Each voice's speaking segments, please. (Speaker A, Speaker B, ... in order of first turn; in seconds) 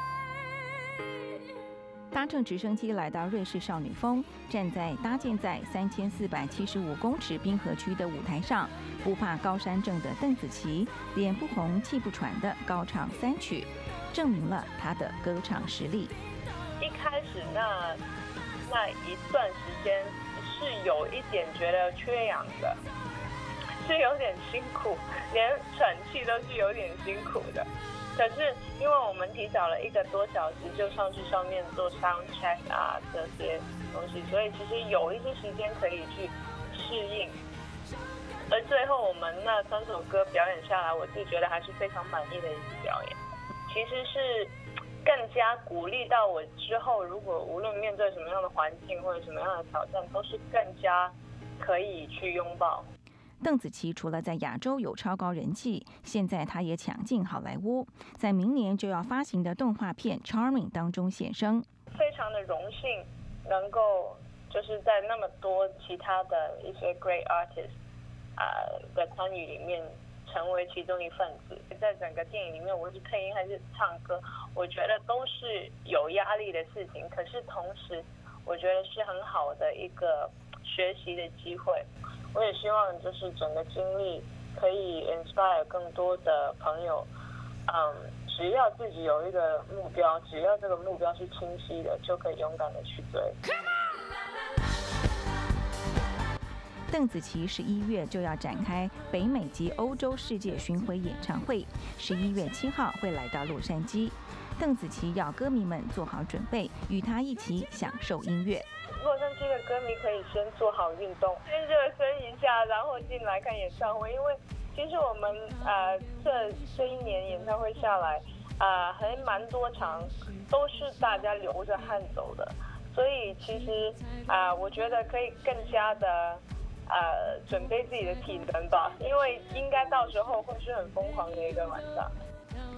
Speaker A: 2.1-16.1, 53.4-61.6, 96.9-108.7
Speaker B: 16.8-18.0, 18.7-22.8, 23.8-37.4, 38.5-44.5, 45.0-52.9, 61.9-67.8, 68.4-87.1, 87.7-93.4, 109.0-132.1